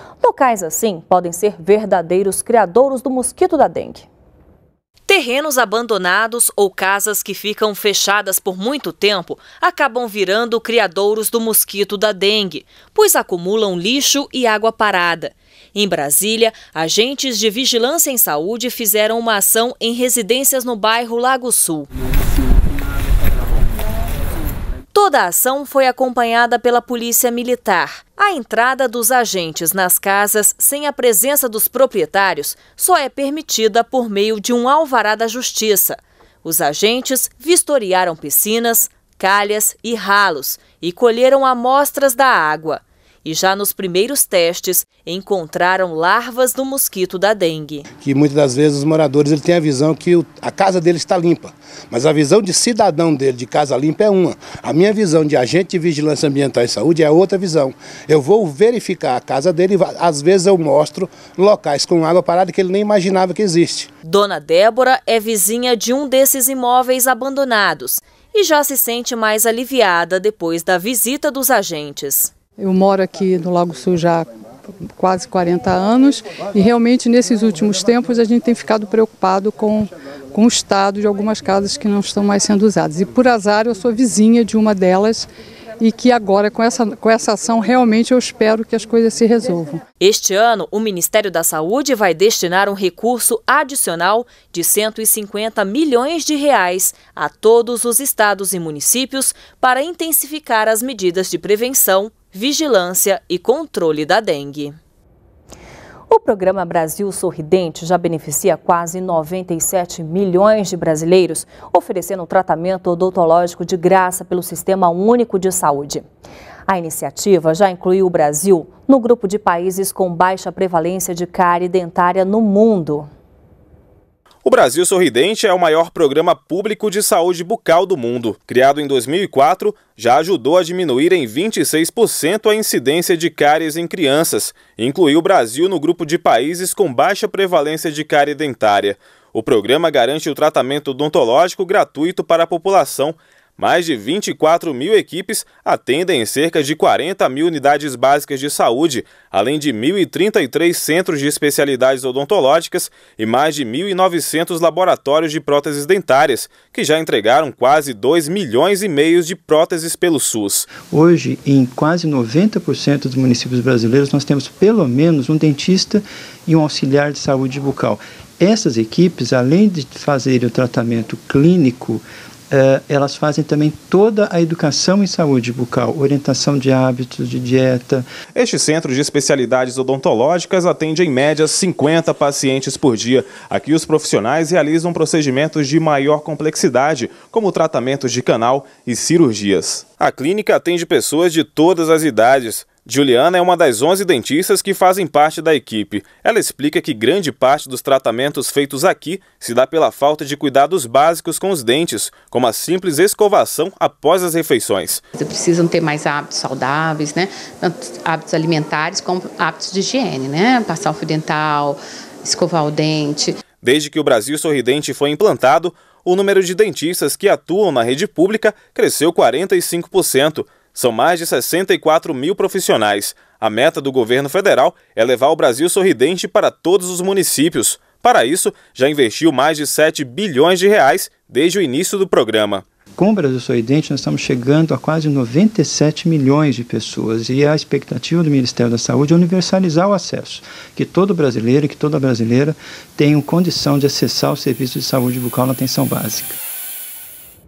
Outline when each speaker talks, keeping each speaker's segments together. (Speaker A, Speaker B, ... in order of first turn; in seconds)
Speaker A: 0.2-4.1, 5.1-21.9, 24.9-47.9, 64.0-72.3, 90.0-104.8, 106.1-116.0, 116.7-123.1
Speaker B: 48.0-63.9
Speaker C: 72.6-74.3, 74.9-85.3, 85.8-89.8
Speaker D: 124.4-160.7, 178.3-205.0, 213.6-232.6
Speaker E: 160.9-178.1, 233.0-246.4
Speaker F: 205.2-213.3